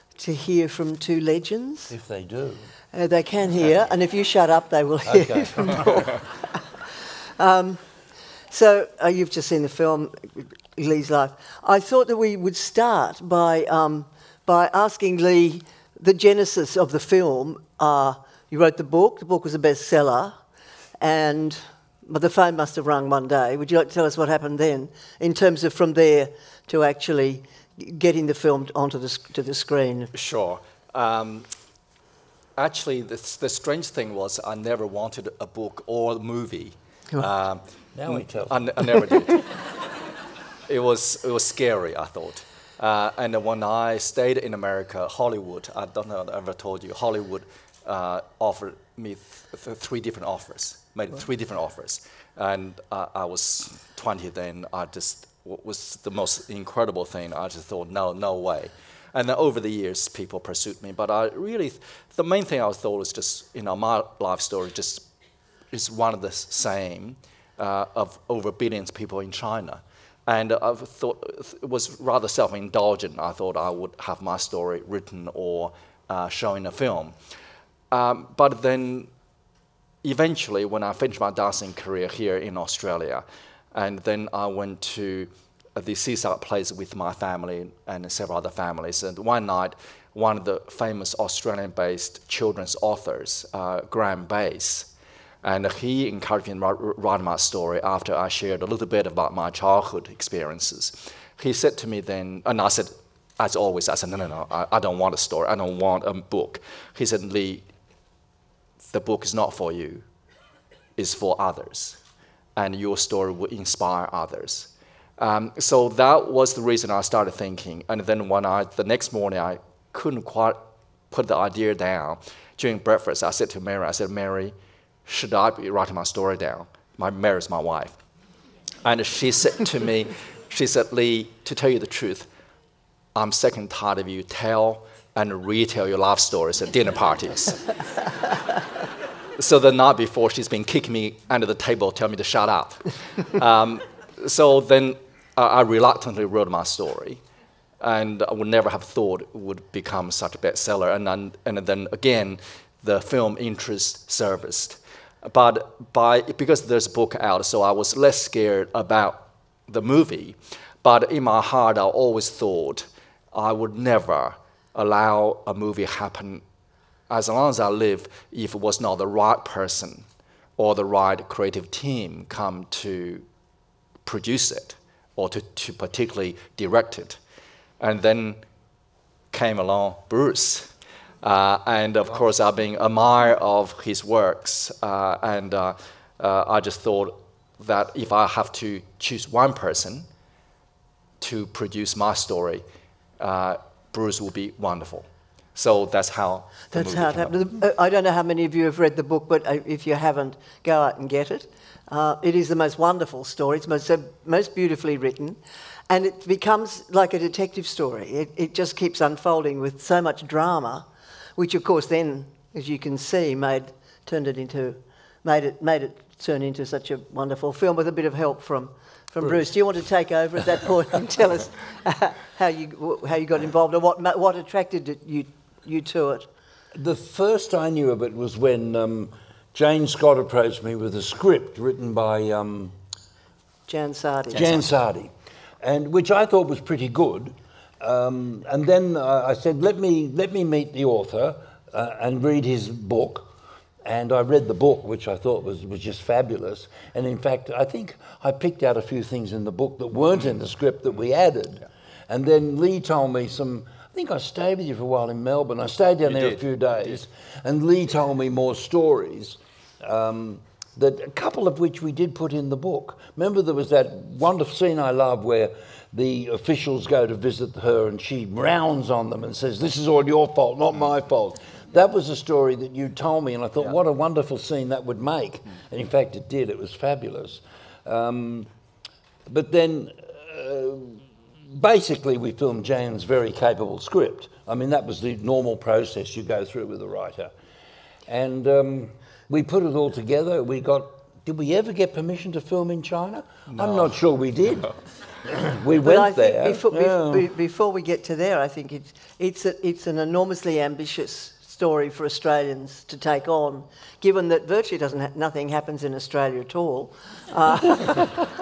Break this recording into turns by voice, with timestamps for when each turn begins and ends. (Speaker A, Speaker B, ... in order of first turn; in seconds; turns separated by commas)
Speaker A: 0.1-1.9, Speaker B: 1.9-2.7, Speaker A: 2.9-6.2, Speaker B: 5.0-6.0, Speaker A: 7.4-7.8, Speaker A: 8.5-20.4, Speaker A: 21.0-30.1, Speaker C: 30.1-31.5, Speaker C: 32.6-39.4, Speaker B: 37.9-38.7, Speaker C: 40.7-65.0, Speaker C: 65.7-77.2, Speaker C: 77.9-79.1, Speaker C: 80.0-94.9, Speaker C: 95.4-107.7, Speaker C: 108.9-110.0, Speaker C: 111.0-112.0, Speaker C: 112.5-120.6, Speaker C: 121.1-124.5, Speaker C: 125.0-128.0, Speaker C: 128.8-132.3, Speaker C: 133.1-137.7, Speaker C: 139.4-147.2, Speaker C: 147.8-166.4, Speaker C: 167.1-170.0, Speaker C: 170.6-173.2, Speaker C: 174.0-177.2, Speaker C: 177.8-178.4, Speaker C: 179.3-190.1, Speaker C: 191.2-192.6, Speaker C: 193.2-197.3, Speaker A: 196.7-226.3, Speaker B: 226.7-232.7, Speaker A: 233.7-234.7, Speaker B: 234.3-243.3, Speaker B: 243.8-278.5, Speaker C: 256.0-257.0, Speaker B: 279.2-287.3, Speaker B: 288.1-294.7, Speaker C: 293.5-293.9, Speaker B: 295.3-297.3, Speaker A: 295.8-308.2